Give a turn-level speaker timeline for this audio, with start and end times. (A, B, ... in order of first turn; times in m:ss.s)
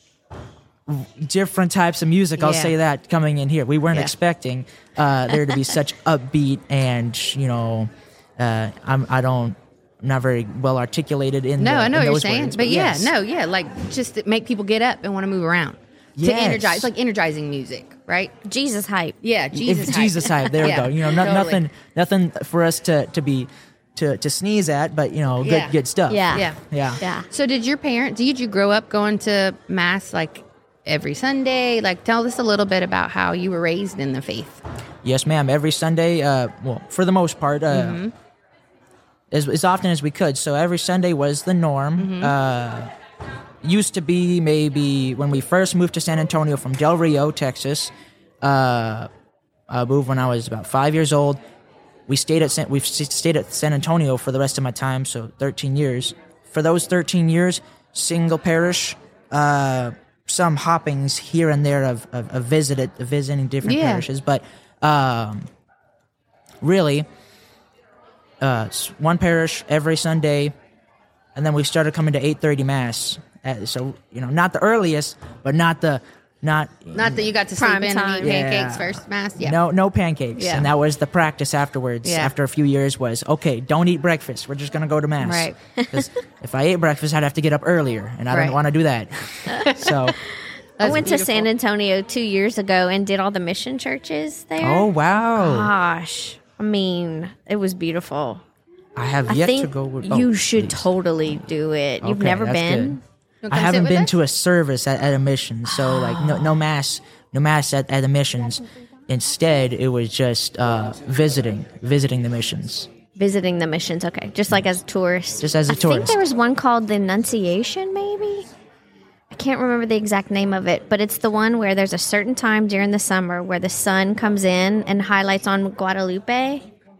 0:00.9-0:13.1 A
0:02.4-0:02.7 B
0:11.6-0:18.3 B
0:16.2-0:16.9 A
0:18.4-0:19.2 C
0:19.2-0:21.6 B
0:19.5-0:27.0 A
0:25.4-0:25.8 B
0:26.1-0:26.5 C
0:26.3-0:34.6 B
0:27.0-0:27.2 C
0:35.0-0:38.0 A
0:37.7-0:38.1 B
0:39.3-0:42.9 A
0:42.0-0:42.3 B
0:43.6-0:49.1 A
0:49.7-0:51.4 A
0:52.1-1:05.5 A
1:03.6-1:04.0 B
1:06.6-1:07.0 A
1:08.4-1:10.5 A
1:11.4-1:17.3 A
1:16.9-1:19.6 B
1:17.6-1:18.3 C
1:18.2-1:30.2 A
1:20.4-1:20.7 B
1:22.0-1:22.3 B
1:25.2-1:25.6 B
1:28.3-1:28.6 B
1:29.6-1:30.2 B
1:30.8-1:31.5 B
1:30.8-1:38.4 C
1:34.6-1:35.7 A
1:39.0-1:41.4 A
1:39.3-1:43.0 C
1:42.0-1:43.0 A
1:43.4-1:44.2 B
1:43.5-1:52.9 A
1:45.7-1:46.5 C
1:53.1-1:58.5 C
1:54.5-1:54.8 A
1:55.4-1:56.2 A
1:59.3-2:06.7 C